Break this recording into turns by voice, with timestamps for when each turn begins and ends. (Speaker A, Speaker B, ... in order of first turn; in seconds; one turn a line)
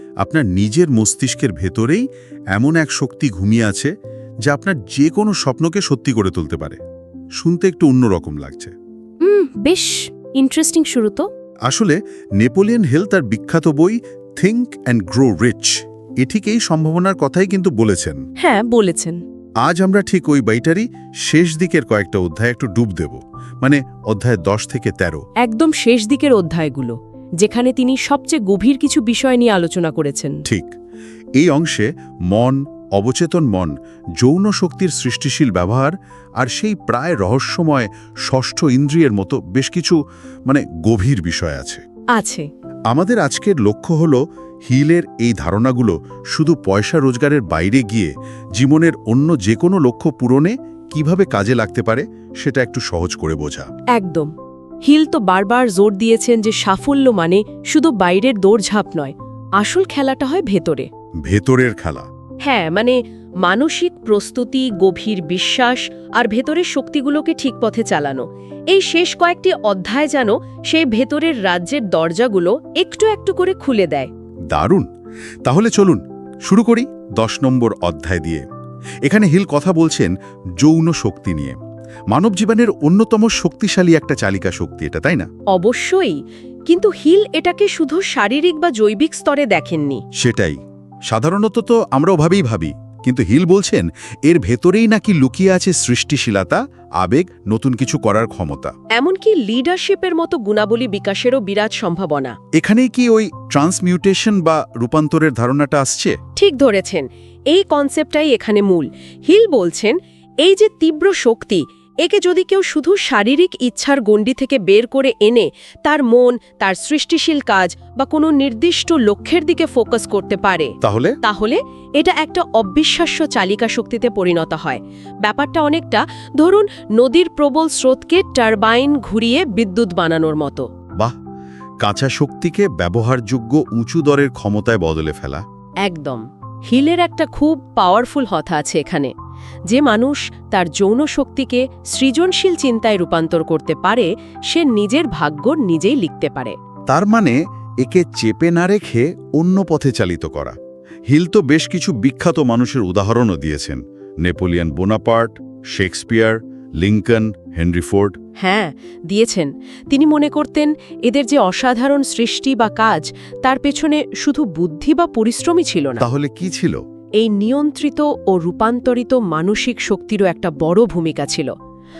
Speaker A: 0.2-3.9
Speaker A: 4.4-6.8
Speaker A: 7.4-8.7
Speaker B: 9.2-11.3
Speaker A: 11.7-18.2
Speaker B: 18.4-19.2
Speaker A: 19.6-25.2
Speaker B: 25.4-30.4
Speaker A: 30.4-30.7
Speaker A: 31.4-41.8
Speaker B: 42.1-42.5
Speaker A: 42.9-53.7
Speaker B: 53.9-54.3
Speaker B: 54.8-60.9
Speaker A: 61.2-62.1
Speaker B: 62.4-74.1
Speaker A: 74.5-74.9
Speaker A: 75.4-78.4
Speaker A: 79.0-81.5
Speaker A: 82.1-85.3
Speaker B: 85.5-90.0
Speaker A: 90.2-98.7
Speaker B: 98.9-102.3
Speaker A: 102.5-106.2
Speaker B: 106.3-130.7
Speaker A: 120.8-121.2
Speaker A: 131.8-135.4
Speaker B: 135.8-139.1
Speaker B: 139.7-146.6
Speaker A: 146.9-150.6
Speaker A: 151.1-158.2
Speaker B: 158.4-166.0
Speaker A: 166.0-166.8
Speaker B: 167.2-171.5